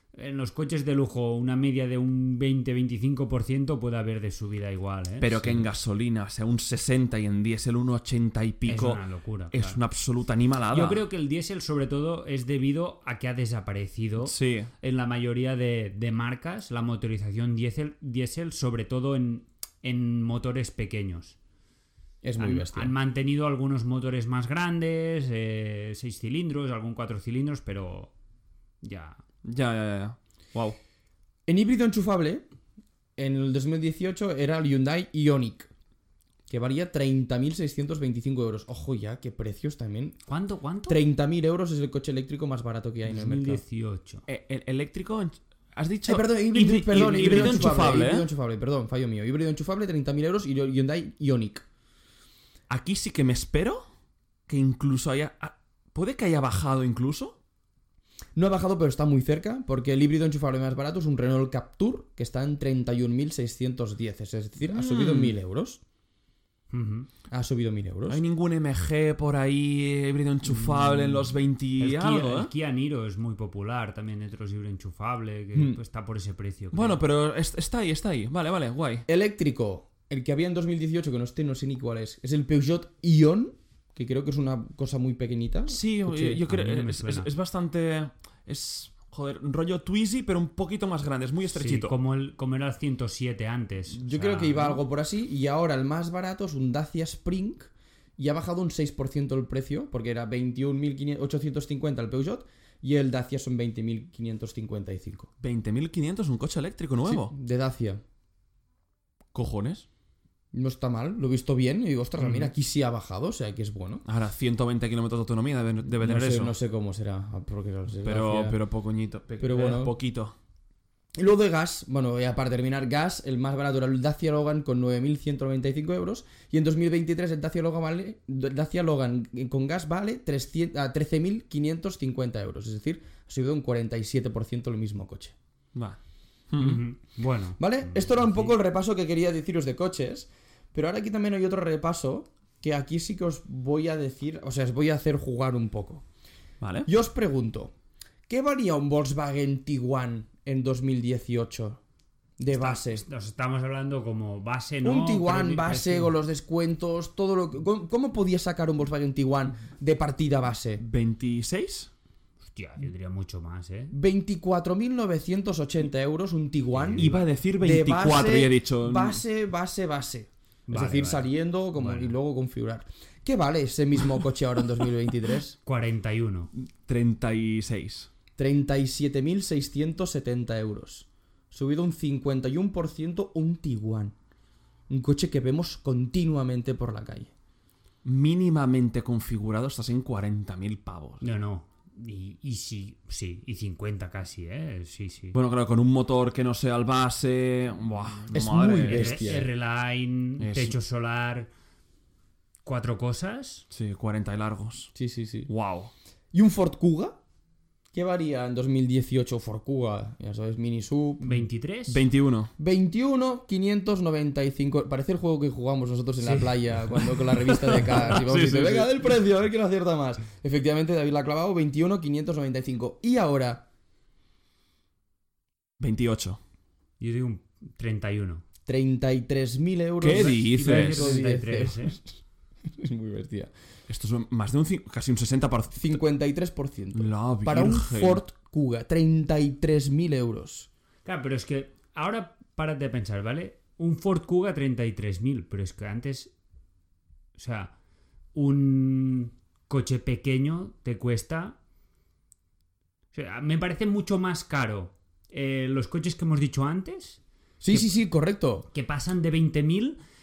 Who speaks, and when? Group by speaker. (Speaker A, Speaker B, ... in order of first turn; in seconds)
Speaker A: 0.1-5.7, 8.7-9.8, 10.7-21.4, 22.4-28.1, 28.8-29.2, 40.3-41.0, 43.0-44.2, 46.9-47.9, 66.7-67.1, 70.5-77.0, 86.3-87.3, 91.5-94.8, 136.6-138.5, 152.5-156.1, 162.5-163.9, 166.7-167.2, 170.7-172.1, 175.7-176.5, 191.2-195.3, 198.8-201.5, 202.6-203.7, 211.2-212.0, 216.2-216.5, 227.0-228.4, 230.1-232.0, 241.0-246.3, 247.3-247.7, 248.3-251.6, 253.1-257.2, 258.7-260.0
Speaker B: 5.2-11.0, 14.2-14.7, 29.4-30.8, 44.3-48.3, 52.7-53.8, 54.5-57.4, 64.7-65.3, 68.1-72.5, 76.7-79.0, 85.7-92.0, 105.4-107.3, 109.3-109.8, 114.0-116.5, 118.0-120.3, 136.5-136.8, 146.6-146.9, 160.8-161.9, 167.0-169.2, 176.6-178.1, 188.0-191.2, 195.3-199.4, 200.4-200.8, 203.7-204.9, 205.5-205.9, 211.9-212.5, 217.4-219.1, 225.8-226.4, 230.0-231.2, 233.9-236.0, 236.9-238.2
Speaker C: 22.2-22.9, 31.5-32.4, 33.2-35.7, 36.5-40.2, 40.9-43.6, 46.1-51.6, 58.4-65.8, 67.3-68.2, 75.5-75.8, 79.1-86.4, 93.9-105.3, 107.0-108.0, 110.5-114.0, 116.0-118.6, 119.4-119.9, 121.2-135.3, 137.6-146.0, 146.8-147.7, 148.3-151.8, 152.4-153.0, 154.8-160.8, 163.9-175.6, 178.4-184.1, 184.9-187.3, 198.3-199.5, 204.9-205.5, 206.3-207.2, 207.9-211.4, 212.6-223.6, 228.7-232.1, 232.7-233.5, 235.7-240.7, 257.6-258.7